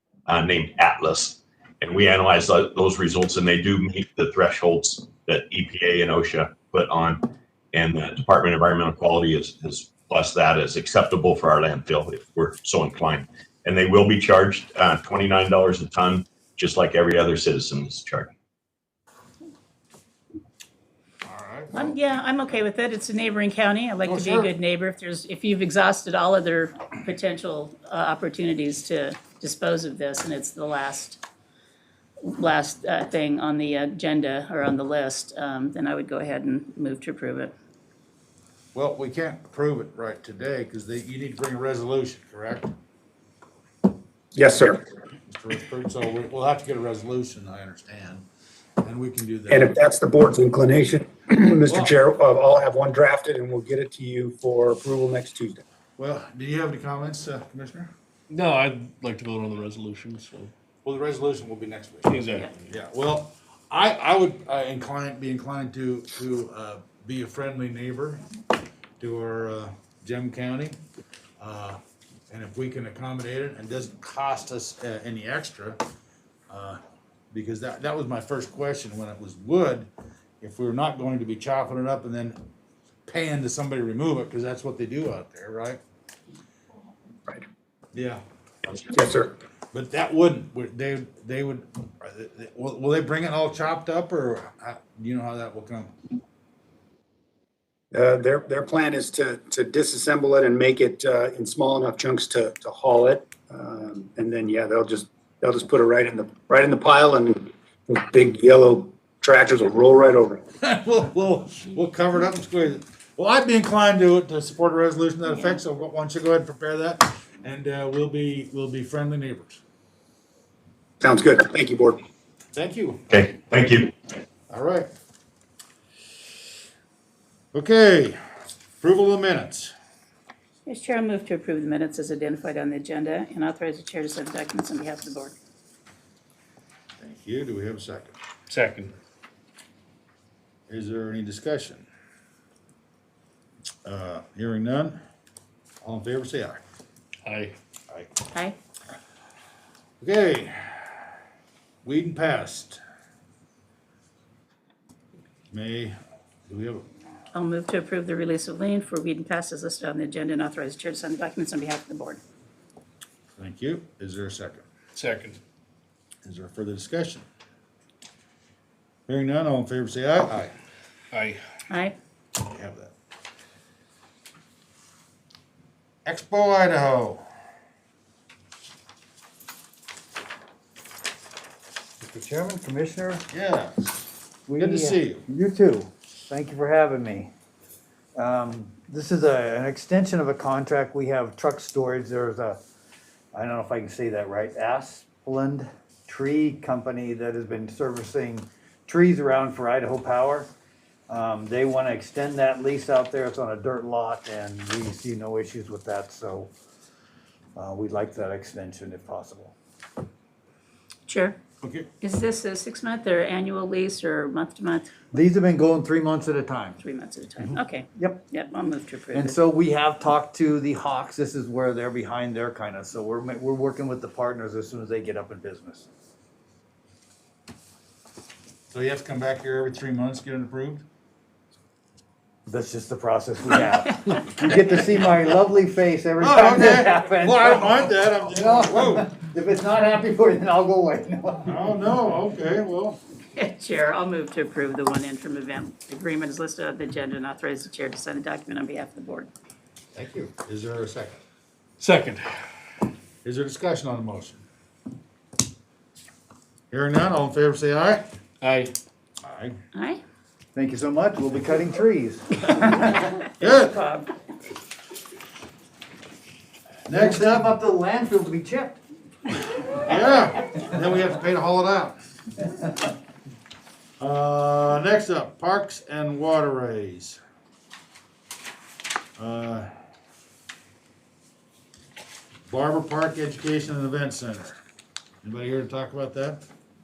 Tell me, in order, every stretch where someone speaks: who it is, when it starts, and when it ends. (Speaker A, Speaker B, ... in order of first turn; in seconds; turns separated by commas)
Speaker A: 0.3-18.3, Speaker B: 21.2-22.0, Speaker C: 21.7-31.2, Speaker B: 24.1-24.5, Speaker C: 32.2-37.5, Speaker B: 38.7-42.7, Speaker D: 44.4-44.9, Speaker B: 45.3-48.3, Speaker B: 48.8-49.8, Speaker D: 49.5-55.6, Speaker B: 51.7-52.0, Speaker B: 56.0-57.9, Speaker E: 58.3-60.5, Speaker B: 60.8-68.2, Speaker E: 62.1-62.5, Speaker B: 69.0-70.8, Speaker B: 71.4-71.8, Speaker B: 72.3-75.8, Speaker B: 76.5-76.8, Speaker B: 77.3-79.9, Speaker B: 80.4-82.4, Speaker B: 83.1-85.8, Speaker B: 87.9-88.2, Speaker D: 88.8-89.3, Speaker B: 89.7-95.9, Speaker D: 97.9-110.4, Speaker B: 110.6-119.6, Speaker D: 121.0-122.0, Speaker B: 122.5-123.1, Speaker A: 123.1-123.9, Speaker B: 124.5-124.9, Speaker B: 127.5-128.2, Speaker B: 128.8-129.7, Speaker C: 130.7-135.4, Speaker B: 137.0-138.2, Speaker E: 138.5-138.9, Speaker B: 140.7-141.8, Speaker B: 143.8-145.0, Speaker B: 145.8-146.6, Speaker E: 147.2-147.6, Speaker B: 150.0-151.1, Speaker B: 151.8-152.8, Speaker B: 155.5-155.9, Speaker B: 156.5-156.8, Speaker C: 157.3-162.2, Speaker B: 163.4-164.7, Speaker E: 164.9-165.4, Speaker B: 166.2-167.2, Speaker B: 169.1-170.5, Speaker E: 171.1-171.4, Speaker C: 171.7-171.9, Speaker B: 172.4-172.9, Speaker B: 176.1-177.2, Speaker F: 182.0-183.2, Speaker B: 183.3-184.1, Speaker F: 184.5-187.3, Speaker B: 184.6-185.2, Speaker F: 188.2-192.6, Speaker F: 193.3-200.5, Speaker F: 201.1-206.5, Speaker F: 207.6-209.5, Speaker C: 211.1-211.4, Speaker B: 211.6-211.9, Speaker C: 212.0-214.9, Speaker F: 215.1-216.8, Speaker C: 216.8-219.4, Speaker F: 217.4-218.2, Speaker F: 219.1-225.9, Speaker B: 228.7-230.8, Speaker F: 232.5-241.7, Speaker B: 236.2-239.1, Speaker B: 241.5-243.0, Speaker C: 243.3-249.3, Speaker B: 249.9-251.2, Speaker E: 251.8-252.4, Speaker B: 253.2-254.4, Speaker B: 256.7-258.1, Speaker E: 258.4-258.8, Speaker B: 259.2-259.6, Speaker C: 259.7-260.0, Speaker F: 260.6-262.9, Speaker B: 263.4-263.8, Speaker C: 263.4-264.1, Speaker B: 266.9-267.5, Speaker F: 266.9-268.8, Speaker B: 269.8-272.0, Speaker B: 274.0-277.2, Speaker B: 279.2-279.7, Speaker B: 282.5-284.6, Speaker B: 285.2-286.4